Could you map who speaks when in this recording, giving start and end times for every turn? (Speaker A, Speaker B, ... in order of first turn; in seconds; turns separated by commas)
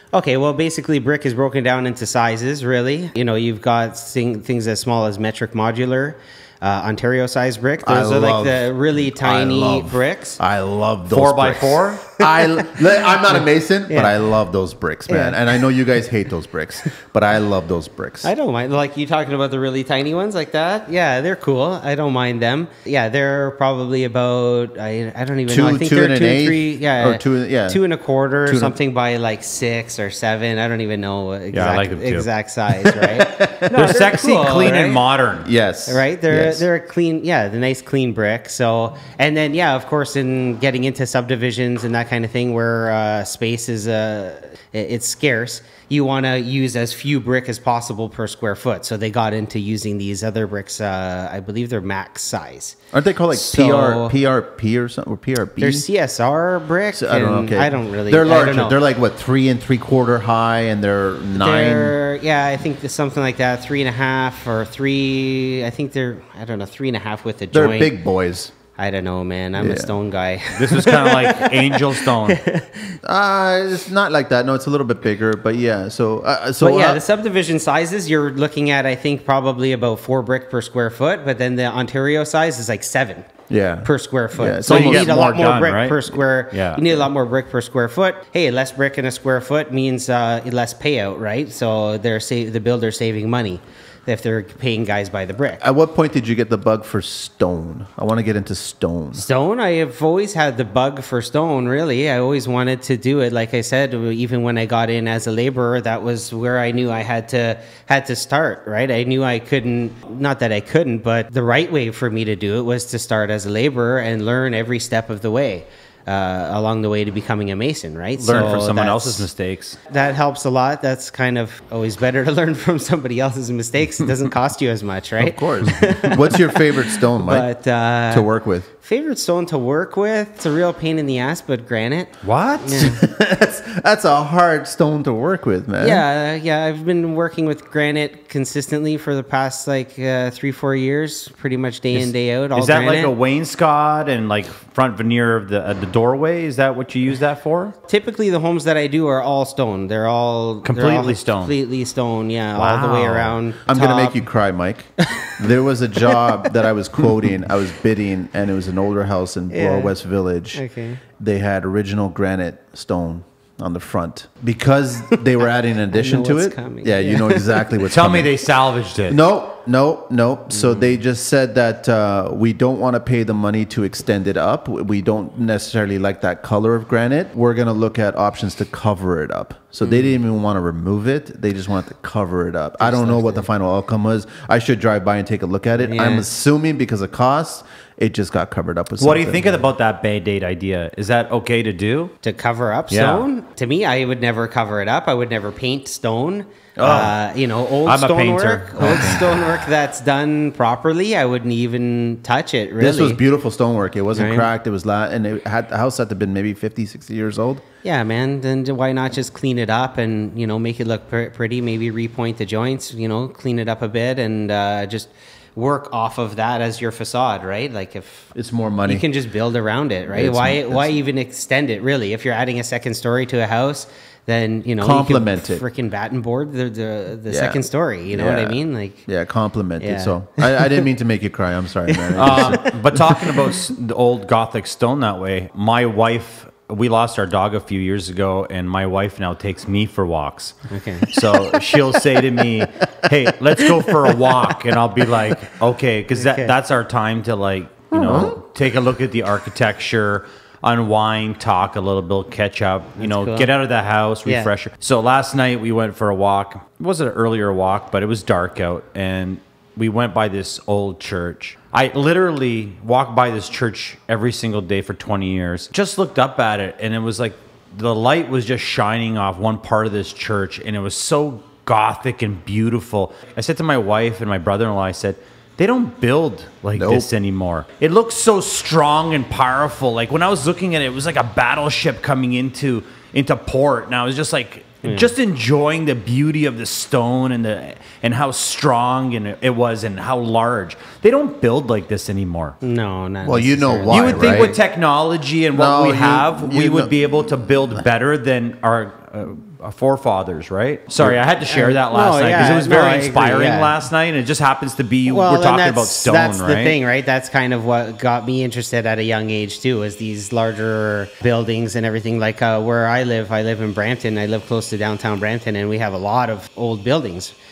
Speaker A: 0.1-10.4, Speaker B: 7.8-18.3, Speaker C: 11.1-12.1, Speaker A: 12.4-12.8, Speaker A: 13.9-14.2, Speaker A: 15.1-15.6, Speaker A: 18.2-35.0, Speaker B: 25.5-27.8, Speaker B: 28.4-28.8, Speaker C: 31.5-32.3, Speaker B: 33.1-34.0, Speaker C: 33.7-35.5, Speaker B: 35.4-36.6, Speaker A: 35.9-52.8, Speaker B: 52.9-55.8, Speaker A: 53.3-54.1, Speaker A: 55.6-58.8, Speaker B: 56.9-61.9, Speaker A: 61.4-68.0, Speaker B: 67.5-68.5, Speaker A: 68.8-73.0, Speaker B: 69.6-69.9, Speaker C: 70.6-72.4, Speaker B: 73.0-77.0, Speaker A: 76.6-83.3, Speaker B: 83.5-85.6, Speaker A: 83.8-95.6, Speaker C: 84.7-87.0, Speaker B: 95.6-99.2, Speaker A: 99.1-119.3, Speaker C: 118.2-119.8, Speaker A: 119.9-133.0, Speaker B: 125.2-127.5, Speaker B: 128.1-128.7, Speaker C: 132.2-132.9, Speaker B: 132.8-136.0, Speaker A: 135.8-143.1, Speaker C: 141.9-147.7, Speaker A: 147.9-154.3, Speaker C: 150.6-151.5, Speaker C: 152.6-153.4, Speaker B: 153.7-160.6, Speaker A: 155.0-155.4, Speaker A: 159.5-159.9, Speaker A: 160.5-161.0, Speaker B: 161.2-168.5, Speaker A: 165.9-167.7, Speaker C: 167.8-169.2, Speaker B: 169.1-189.6, Speaker A: 170.5-170.9, Speaker A: 182.8-183.5, Speaker A: 185.8-186.2, Speaker C: 189.0-192.1, Speaker A: 192.2-203.2, Speaker C: 192.9-193.3, Speaker B: 196.8-197.1, Speaker C: 196.8-197.1, Speaker C: 197.8-199.4, Speaker B: 198.8-199.3, Speaker B: 202.8-207.6, Speaker A: 204.2-204.5, Speaker A: 207.8-218.3, Speaker B: 218.3-219.0, Speaker A: 218.8-229.0, Speaker B: 220.1-220.9, Speaker B: 224.8-225.6, Speaker B: 227.3-233.0, Speaker A: 229.8-230.8, Speaker A: 232.1-232.7, Speaker C: 232.2-292.6, Speaker A: 240.7-241.1, Speaker A: 246.1-246.5, Speaker B: 247.9-248.4, Speaker A: 253.0-253.5, Speaker B: 276.7-277.1, Speaker A: 284.8-285.1, Speaker A: 292.6-294.5, Speaker B: 293.2-294.6, Speaker C: 293.9-306.8, Speaker B: 295.5-296.9, Speaker A: 301.5-303.7, Speaker A: 305.1-317.3